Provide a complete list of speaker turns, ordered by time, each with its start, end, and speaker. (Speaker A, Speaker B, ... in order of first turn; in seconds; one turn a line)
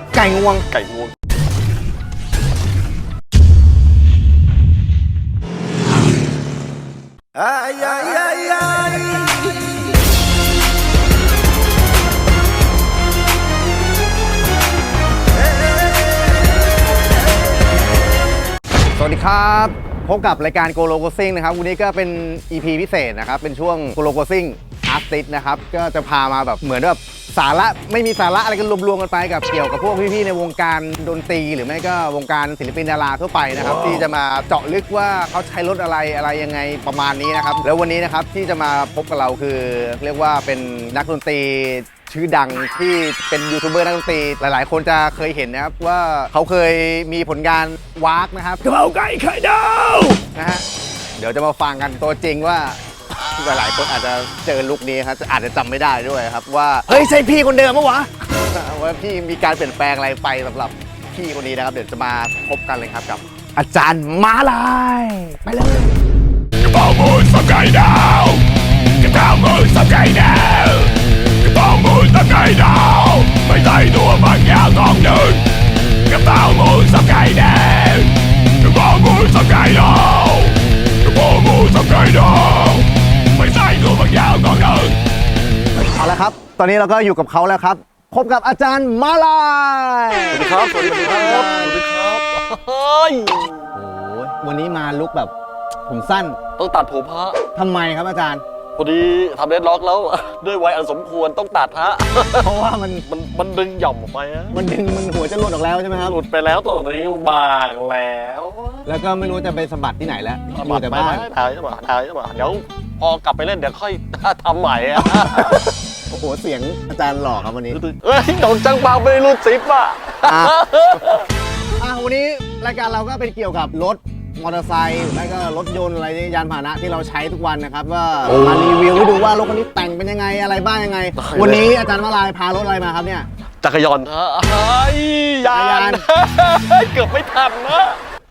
Speaker A: 0.1-0.7
Speaker B: 0.7-1.1
Speaker A: 7.3-9.3
Speaker A: 19.0-50.6
Speaker A: 51.2-66.0
Speaker C: 66.6-68.4
Speaker C: 69.0-70.9
Speaker C: 71.4-75.4
Speaker C: 76.1-80.5
Speaker C: 81.1-82.4
Speaker C: 83.4-84.9
Speaker B: 83.5-83.8
Speaker A: 85.8-91.8
Speaker B: 90.3-93.8
Speaker A: 93.7-95.3
Speaker A: 95.9-96.4
Speaker B: 96.6-97.4
Speaker A: 97.5-98.4
Speaker B: 98.7-102.5
Speaker A: 102.4-103.0
Speaker B: 103.0-104.6
Speaker A: 104.5-106.2
Speaker B: 106.0-108.8
Speaker A: 108.8-111.3
Speaker B: 110.5-115.7
Speaker A: 115.0-117.8
Speaker B: 117.7-121.3
Speaker A: 120.2-120.6
Speaker A: 121.8-133.3
Speaker B: 128.2-129.1
Speaker B: 131.2-131.8
Speaker B: 133.6-138.0
Speaker A: 135.5-136.0